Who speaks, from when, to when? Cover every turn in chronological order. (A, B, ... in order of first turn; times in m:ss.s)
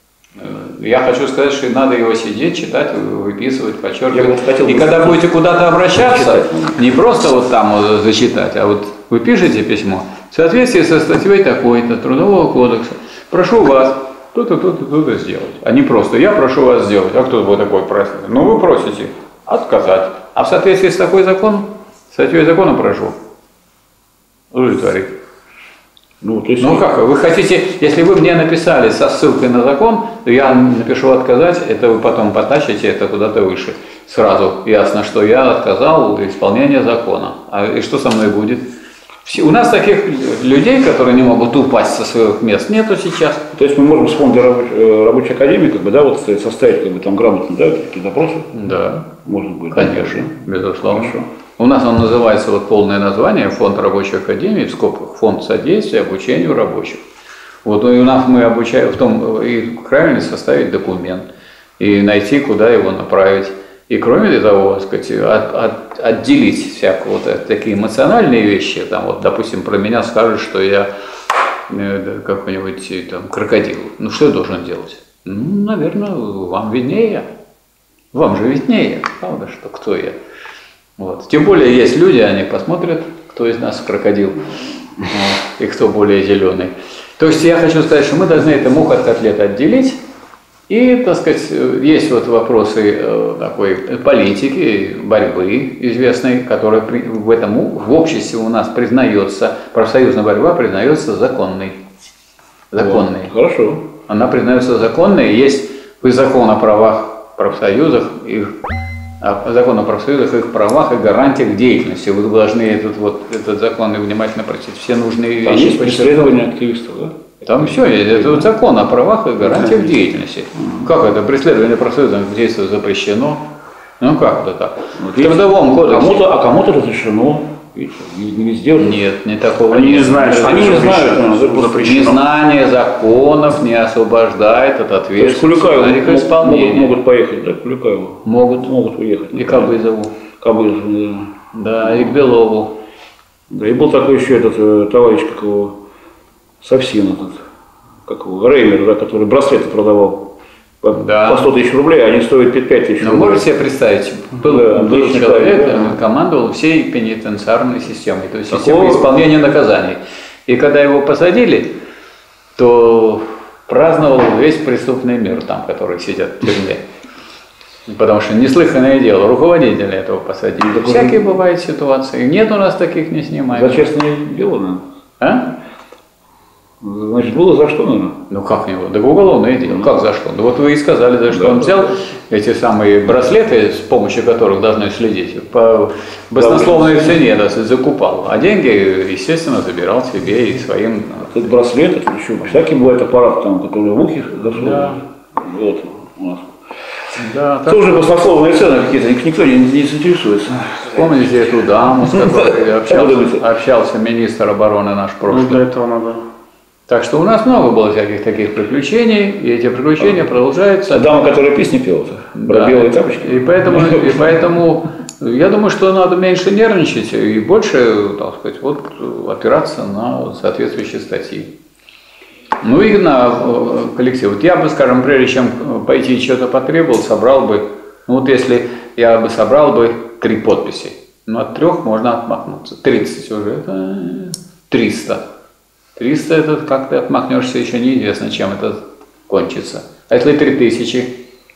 0:00.4-0:23.2 A
0:04.1-0:05.3 B
0:05.9-0:06.8 B
0:24.5-0:25.1 A
0:26.2-0:26.8 B
0:26.6-0:38.7 A
0:39.2-0:43.4 A
0:43.5-0:48.5 B
0:48.5-0:49.1 A
0:49.2-0:50.3 B
0:49.7-0:57.0 A
0:50.8-0:51.3 B
0:57.6-1:01.3 A
1:01.8-1:10.9 A
1:11.7-1:17.3 A
1:18.1-1:20.2 A
1:21.0-1:30.0 A
1:30.7-1:41.8 A
1:42.7-1:43.3 A
1:42.8-1:43.8 B
1:44.1-1:48.5 A
1:49.2-1:56.4 A
1:55.4-1:58.5 B
1:57.4-2:03.4 A
1:59.4-2:00.0 B
2:00.6-2:00.9 B
2:04.0-2:06.3 A
2:05.0-2:09.0 B
2:08.8-2:11.2 A
2:09.7-2:12.2 C
2:10.2-2:12.2 B
2:11.8-2:17.0 A
2:15.2-2:19.7 B
2:18.2-2:18.7 A
2:19.3-2:20.1 A
2:20.4-2:22.2 B
2:21.5-2:22.7 A
2:23.5-2:25.8 B
2:26.6-2:27.4 B
2:28.1-2:30.3 B
2:30.8-2:33.5 B
2:30.9-2:31.5 A
2:33.0-2:41.7 A
2:34.4-2:36.0 B
2:38.5-2:39.1 B
2:42.6-2:46.8 A
2:47.9-2:53.9 A
2:50.6-2:51.2 B
2:53.5-2:54.8 B
2:55.2-2:55.5 A
2:56.8-2:58.2 B
2:58.3-3:11.4 A
3:01.3-3:02.0 B
3:06.4-3:07.2 B
3:11.2-3:17.1 B
3:14.6-3:15.0 A
3:17.2-3:18.1 A
3:17.7-3:21.0 B
3:20.9-3:25.6 A
3:22.1-3:23.4 B
3:25.3-3:26.2 C
3:26.9-3:31.1 A
3:30.9-3:34.3 B
3:32.3-3:41.5 A
3:42.6-3:55.2 A
3:56.0-4:01.1 A